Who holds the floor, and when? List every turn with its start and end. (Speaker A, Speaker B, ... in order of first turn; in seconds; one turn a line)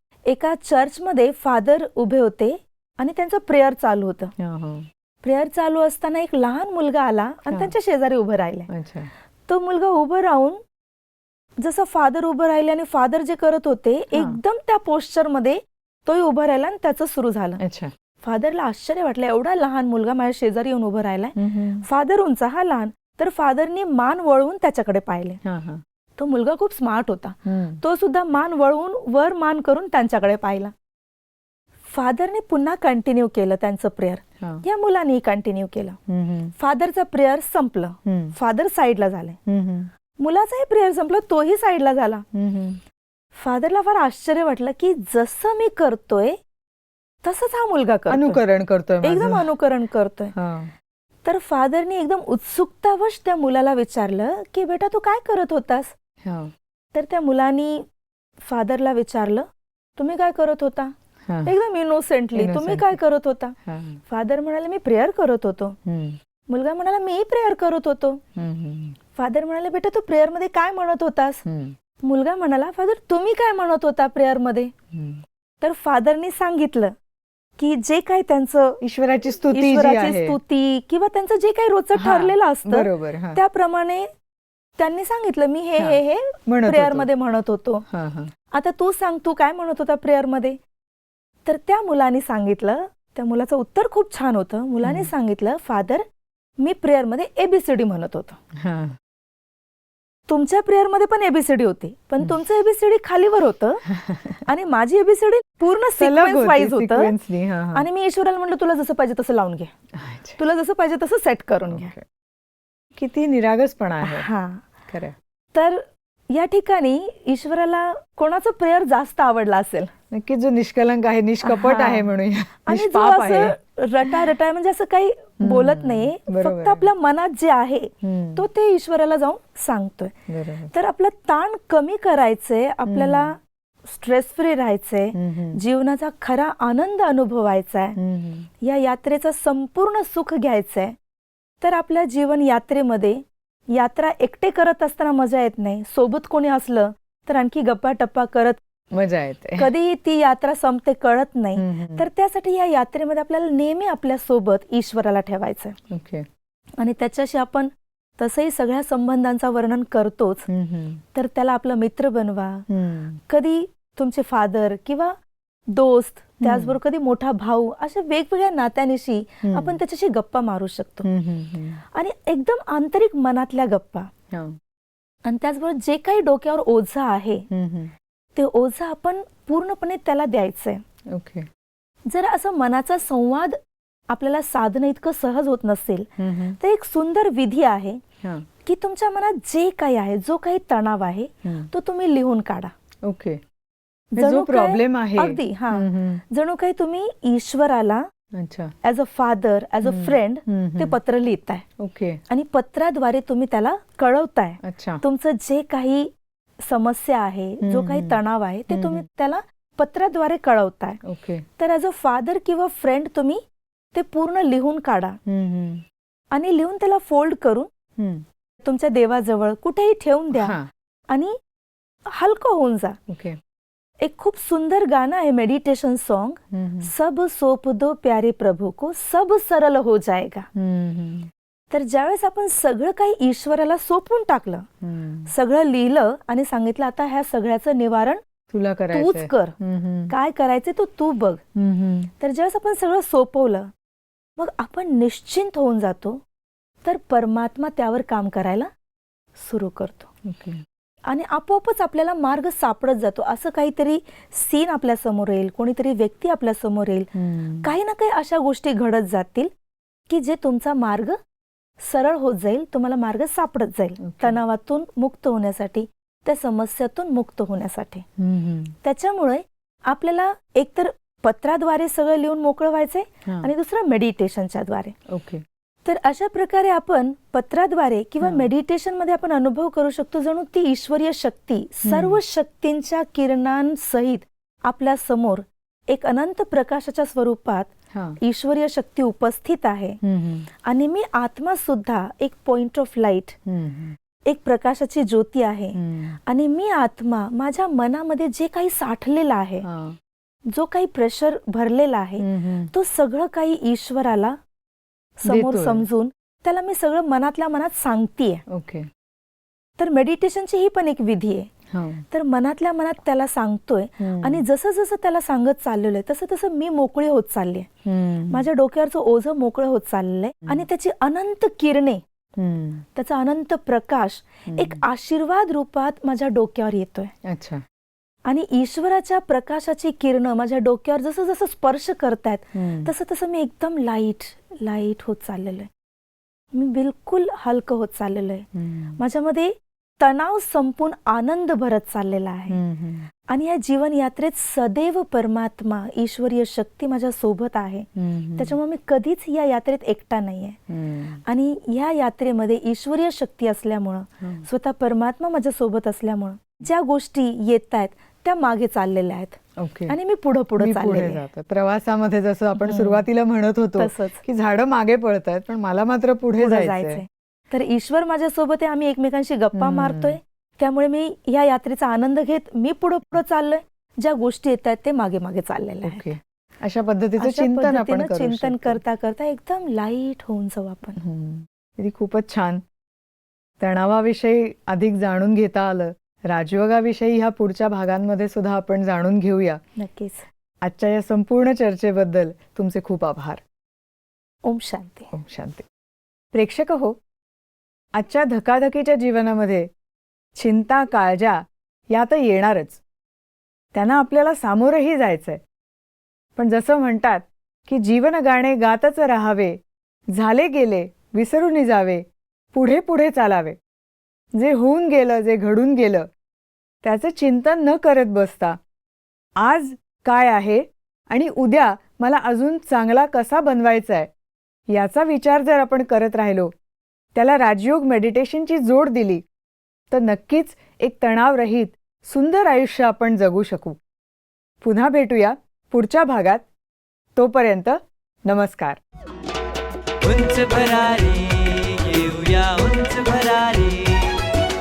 Speaker A: 0.2-4.3
Speaker B: 4.4-4.9
Speaker A: 5.2-8.7
Speaker B: 8.7-9.1
Speaker A: 9.4-10.6
Speaker A: 11.6-17.6
Speaker B: 14.1-14.4
Speaker B: 17.6-17.9
Speaker A: 18.2-25.4
Speaker B: 21.4-21.8
Speaker B: 25.4-25.8
Speaker A: 26.2-30.7
Speaker B: 27.4-27.8
Speaker A: 31.9-36.0
Speaker B: 36.1-36.5
Speaker A: 36.6-39.4
Speaker B: 38.0-38.3
Speaker B: 39.5-39.9
Speaker A: 40.2-42.2
Speaker B: 42.3-42.8
Speaker A: 43.3-46.4
Speaker A: 47.2-48.4
Speaker B: 48.1-49.5
Speaker A: 49.0-50.3
Speaker B: 50.3-50.7
Speaker A: 51.2-55.9
Speaker B: 56.2-56.5
Speaker A: 56.9-57.8
Speaker A: 58.4-59.5
Speaker A: 60.0-60.9
Speaker B: 61.2-61.5
Speaker A: 61.4-63.5
Speaker B: 62.3-63.0
Speaker B: 63.6-64.0
Speaker A: 64.1-65.8
Speaker B: 65.8-66.2
Speaker A: 66.5-68.2
Speaker B: 68.3-69.0
Speaker A: 69.1-71.4
Speaker B: 71.4-71.7
Speaker A: 72.0-74.7
Speaker B: 74.9-75.2
Speaker A: 75.6-76.9
Speaker A: 77.6-78.8
Speaker B: 78.8-80.4
Speaker A: 79.5-84.1
Speaker B: 81.9-83.4
Speaker A: 84.8-87.8
Speaker B: 85.8-87.1
Speaker B: 87.9-88.3
Speaker A: 88.5-90.6
Speaker A: 91.5-96.0
Speaker B: 94.8-95.1
Speaker A: 96.6-98.4
Speaker B: 98.5-99.0
Speaker A: 100.3-103.8
Speaker B: 103.9-104.4
Speaker A: 104.4-107.1
Speaker B: 106.0-107.8
Speaker A: 107.7-109.7
Speaker B: 109.9-110.4
Speaker A: 110.4-111.9
Speaker B: 111.7-112.0
Speaker B: 112.9-114.3
Speaker A: 114.0-114.7
Speaker B: 114.9-115.2
Speaker A: 115.5-119.9
Speaker B: 120.1-123.5
Speaker A: 121.4-122.1
Speaker A: 122.7-130.2
Speaker B: 125.4-126.9
Speaker B: 128.0-128.4
Speaker B: 130.3-130.7
Speaker A: 130.7-138.0
Speaker B: 132.9-133.3
Speaker B: 135.1-135.6
Speaker B: 137.9-138.5
Speaker A: 138.6-140.9
Speaker A: 141.6-143.2
Speaker A: 143.7-148.6
Speaker B: 148.9-149.7
Speaker A: 149.6-155.8
Speaker B: 151.6-152.1
Speaker B: 155.9-156.2
Speaker A: 156.8-160.4
Speaker B: 160.5-161.0
Speaker A: 161.1-162.6
Speaker B: 162.7-163.2
Speaker A: 163.3-165.2
Speaker A: 165.7-171.1
Speaker B: 166.4-166.8
Speaker B: 169.4-169.8
Speaker B: 171.0-171.8
Speaker A: 171.9-174.1
Speaker B: 174.3-174.6
Speaker A: 175.2-177.5
Speaker B: 177.5-177.9
Speaker A: 178.3-180.8
Speaker B: 181.1-181.5
Speaker A: 182.1-183.6
Speaker A: 184.1-188.0
Speaker B: 186.2-186.6
Speaker A: 188.6-192.7
Speaker B: 193.0-193.4
Speaker A: 194.1-198.1
Speaker B: 194.2-196.2
Speaker B: 198.3-198.7
Speaker A: 198.8-201.6
Speaker B: 199.8-201.0
Speaker B: 201.8-202.2
Speaker A: 202.3-206.1
Speaker B: 204.6-205.0
Speaker A: 206.6-211.0
Speaker B: 207.6-209.0
Speaker B: 211.0-211.4
Speaker A: 211.6-213.4
Speaker A: 213.9-215.2
Speaker B: 215.2-215.8
Speaker A: 216.3-217.7
Speaker B: 218.0-218.2
Speaker A: 218.6-220.6
Speaker B: 220.3-220.7
Speaker A: 221.1-221.3
Speaker A: 222.1-223.0
Speaker B: 223.1-223.4
Speaker A: 224.0-230.5
Speaker B: 226.5-226.9
Speaker B: 230.5-231.3
Speaker A: 231.7-234.7
Speaker B: 234.8-235.3
Speaker A: 235.3-238.2
Speaker B: 238.5-240.1
Speaker A: 238.9-239.5
Speaker A: 240.1-241.4
Speaker B: 241.5-242.1
Speaker A: 242.2-243.7
Speaker A: 244.4-246.2
Speaker A: 246.8-248.7
Speaker A: 249.3-250.1
Speaker B: 250.2-250.6
Speaker A: 251.1-257.1
Speaker B: 257.1-257.7
Speaker A: 257.6-259.5
Speaker A: 260.1-261.2
Speaker A: 261.8-268.0
Speaker B: 264.0-264.4
Speaker B: 268.2-268.7
Speaker A: 268.8-274.9
Speaker B: 273.2-273.5
Speaker B: 275.1-275.4
Speaker A: 275.8-290.0
Speaker B: 281.9-282.2
Speaker B: 287.9-288.2
Speaker B: 290.0-290.5
Speaker A: 290.6-293.4
Speaker B: 293.4-294.0
Speaker A: 294.2-299.6
Speaker B: 295.8-296.2
Speaker B: 299.6-300.0
Speaker A: 300.5-304.4
Speaker B: 302.2-302.7
Speaker A: 305.2-308.4
Speaker B: 305.3-305.9
Speaker B: 308.5-308.9
Speaker A: 309.8-311.5
Speaker B: 311.7-312.0
Speaker A: 312.1-317.7
Speaker B: 314.0-314.4
Speaker B: 317.8-318.4
Speaker A: 318.3-322.0
Speaker B: 322.4-322.9
Speaker A: 322.9-327.1
Speaker B: 324.5-324.8
Speaker B: 327.2-327.6
Speaker A: 328.2-335.7
Speaker B: 332.5-332.9
Speaker A: 336.5-338.5
Speaker B: 338.5-339.0
Speaker A: 339.0-342.6
Speaker B: 342.5-343.1
Speaker A: 343.3-350.6
Speaker B: 347.9-348.6
Speaker B: 350.7-351.2
Speaker A: 351.2-361.2
Speaker B: 354.2-354.4
Speaker B: 359.6-359.9
Speaker B: 360.6-367.0
Speaker A: 362.6-363.0
Speaker A: 363.8-364.2
Speaker A: 366.4-376.1
Speaker B: 369.5-370.2
Speaker B: 375.8-378.8
Speaker A: 377.2-381.0
Speaker B: 381.0-382.6
Speaker B: 383.6-389.6
Speaker A: 389.8-390.2
Speaker B: 390.6-393.4
Speaker A: 394.4-395.1
Speaker B: 395.1-395.6
Speaker B: 396.3-397.0
Speaker B: 397.9-399.7
Speaker B: 400.3-402.8
Speaker B: 403.7-405.4
Speaker B: 406.4-409.6
Speaker B: 410.1-413.6
Speaker B: 414.3-416.1
Speaker B: 416.8-418.6
Speaker B: 419.4-424.1
Speaker B: 424.7-426.5
Speaker B: 427.1-429.2
Speaker B: 429.9-433.8
Speaker B: 434.6-436.4
Speaker B: 437.1-438.8
Speaker C: 440.0-444.2